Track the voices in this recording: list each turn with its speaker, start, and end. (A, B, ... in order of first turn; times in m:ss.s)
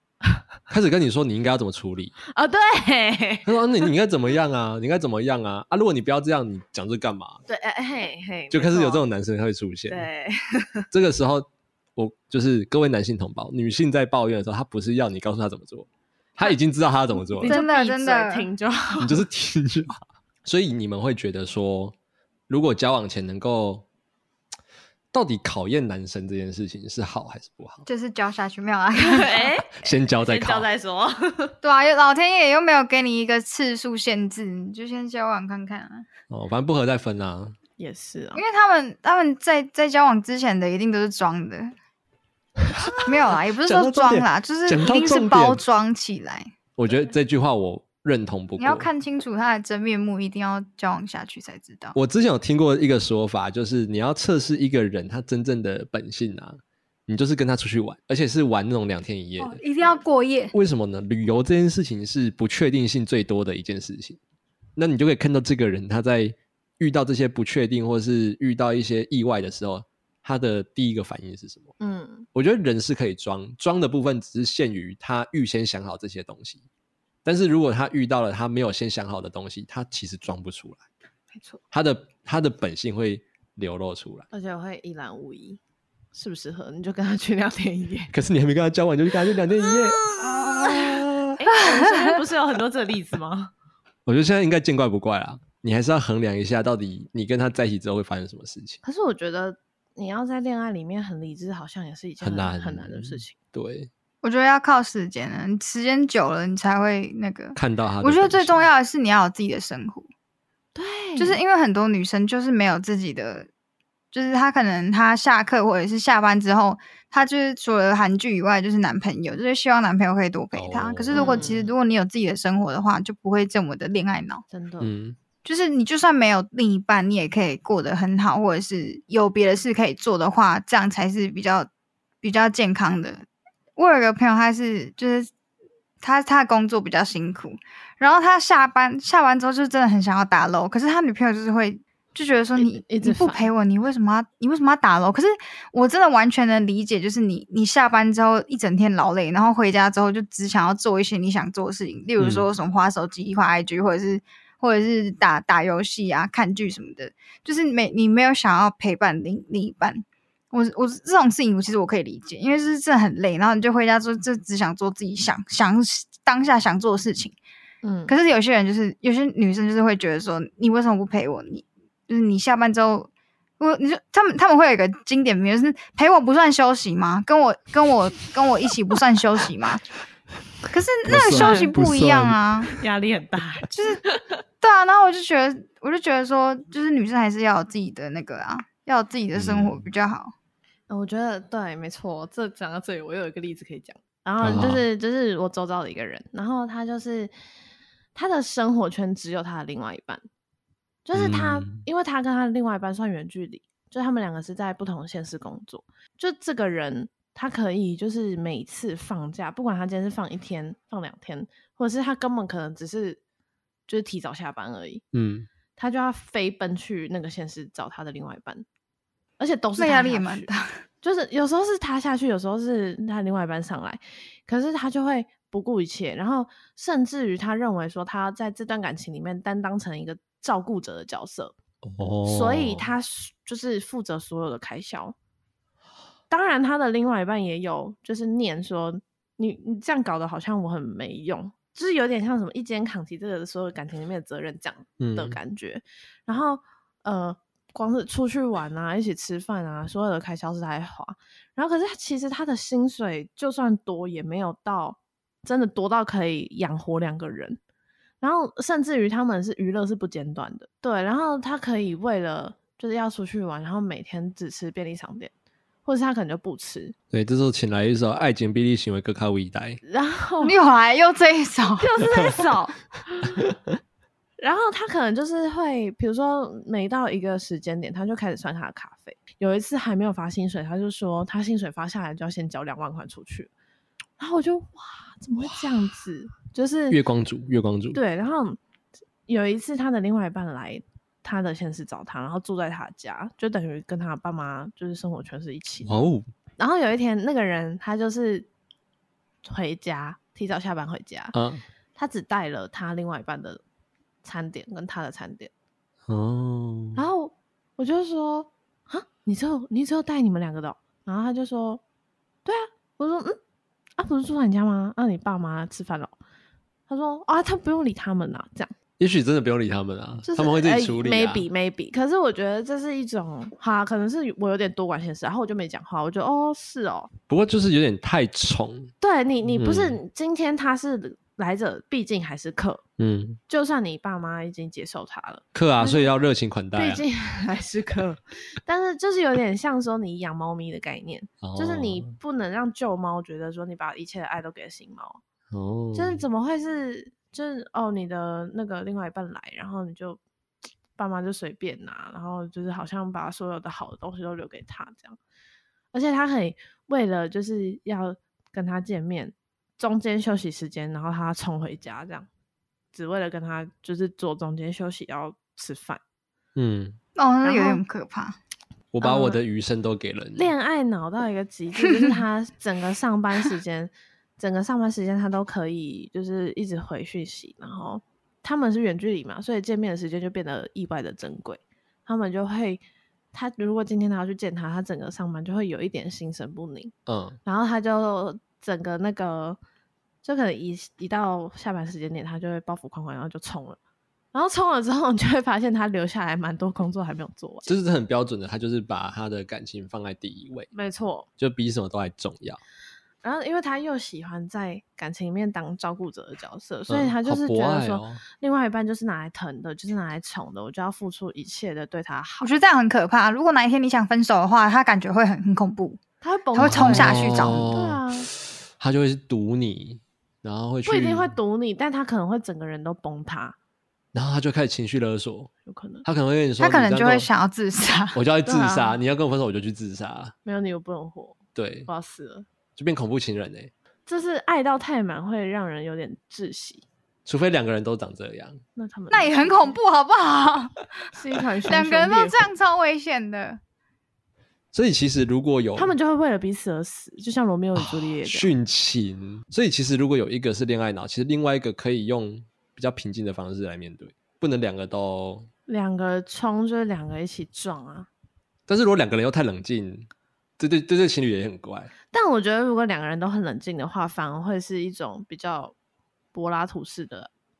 0:00.7-0:02.1 A
0:02.3-0:03.9 B
0:03.4-0:07.4 A
0:07.5-0:09.0 B
0:08.5-0:10.0 A
0:09.9-0:10.8 B
0:10.9-0:17.6 A
0:17.3-0:19.2 B
0:17.4-0:18.5 C
0:19.0-0:21.9 A
0:22.5-0:23.8 A
0:25.1-0:27.8 A
0:27.8-0:29.5 C
0:29.0-0:31.6 B
0:29.8-0:30.7 A
0:31.6-0:36.1 C
0:36.3-0:37.6 A
0:37.8-0:38.4 B
0:38.3-0:41.7 C
0:42.7-0:43.0 A
0:43.0-0:46.5 C
0:43.6-0:45.6 A
0:46.8-0:48.9 A
0:48.6-0:52.0 C
0:51.9-0:59.6 A
0:59.4-1:00.5 C
1:00.5-1:04.2 A
1:04.8-1:11.7 A
1:11.8-1:12.3 B
1:12.3-1:16.6 A
1:17.2-1:20.8 A
1:21.7-1:24.3 A
1:24.3-1:25.6 B
1:26.1-1:28.1 B
1:28.1-1:31.4 A
1:29.6-1:33.5 B
1:31.6-1:32.2 C
1:34.0-1:38.8 A
1:38.8-1:43.3 B
1:42.2-1:43.9 A
1:44.2-1:50.1 C
1:47.6-1:48.6 A
1:50.7-1:51.4 B
1:51.2-1:53.5 C
1:54.1-2:04.4 C
2:00.5-2:01.7 A
2:01.1-2:01.7 B
2:04.5-2:04.9 B
2:04.8-2:05.2 A
2:05.4-2:11.7 C
2:12.2-2:13.2 C
2:13.8-2:15.3 C
2:16.0-2:47.4 C
2:22.6-2:23.5 B
2:32.2-2:32.4 A
2:47.8-2:48.2 B
2:48.1-2:59.8 C
3:00.7-3:02.7 C
3:01.0-3:02.4 A
3:01.3-3:01.7 B
3:02.7-3:04.2 B
3:03.7-3:04.0 C
3:04.6-3:10.3 C
3:09.3-3:09.8 A
3:10.9-3:17.3 B
3:14.4-3:14.8 A
3:18.1-3:20.2 B
3:21.0-3:33.2 B
3:21.1-3:21.8 A
3:33.9-3:35.0 B
3:35.1-3:35.5 A
3:35.8-3:38.6 B
3:39.4-3:40.5 B
3:39.8-3:40.8 C
3:41.0-3:51.5 B
3:51.8-3:52.9 A
3:52.2-3:55.1 B
3:56.3-4:17.6 B
4:05.0-4:05.4 A
4:18.2-4:25.3 B
4:25.8-4:27.0 B
4:27.1-4:29.8 A
4:29.8-4:30.6 B
4:30.4-4:31.9 C
4:31.8-4:33.4 B
4:34.4-4:43.5 B
4:44.2-4:47.0 B
4:45.4-4:45.7 A
4:46.9-4:48.0 A
4:47.9-4:48.6 B
4:49.3-4:56.0 B
4:55.8-4:56.3 A
4:56.6-4:58.5 B
4:59.4-5:01.3 B
5:01.3-5:01.6 A
5:02.0-5:03.6 B
5:04.2-5:05.5 B
5:06.1-5:07.0 A
5:07.0-5:11.8 B
5:12.4-5:13.4 B
5:14.0-5:16.1 B
5:16.9-5:18.7 B
5:19.0-5:21.4 A
5:20.2-5:27.1 B
5:27.3-5:28.9 A
5:29.0-5:32.8 B
5:29.4-5:30.0 A
5:33.0-5:33.4 A
5:33.5-5:36.1 B
5:35.5-5:37.0 A
5:36.7-5:45.2 B
5:41.4-5:42.1 A
5:45.5-5:46.2 A
5:45.9-5:50.2 B
5:51.0-5:55.2 B
5:55.9-6:02.3 B
6:02.9-6:06.0 B
6:06.6-6:07.0 A
6:07.2-6:08.4 C
6:07.4-6:07.8 B
6:08.9-6:10.5 A
6:09.0-6:09.4 B
6:10.4-6:26.9 B
6:27.1-6:27.4 A
6:27.4-6:29.6 B
6:30.2-6:33.8 B
6:34.3-6:37.7 B
6:37.6-6:40.7 A
6:40.7-6:41.3 B
6:41.4-6:42.6 A
6:43.2-6:52.5 B
6:46.9-6:48.2 A
6:52.4-6:56.0 C
6:56.2-6:58.3 B
6:56.5-6:57.7 C
6:56.6-7:01.3 A
7:00.8-7:03.6 B
7:04.1-7:05.5 A
7:05.6-7:06.0 B
7:06.0-7:07.3 A
7:06.6-7:08.2 C
7:08.1-7:10.3 A
7:08.4-7:09.0 B
7:10.4-7:12.4 B
7:11.5-7:11.9 A
7:12.8-7:13.7 A
7:14.1-7:16.8 B
7:17.2-7:18.6 A
7:18.8-7:19.8 B
7:19.1-7:20.8 C
7:21.1-7:22.4 B
7:21.7-7:23.6 C
7:24.7-7:25.9 A
7:25.8-7:28.5 B
7:27.7-7:35.5 A
7:35.7-7:38.1 B
7:38.7-7:40.1 A
7:40.6-7:41.9 A
7:42.1-7:45.7 B
7:46.3-7:47.3 B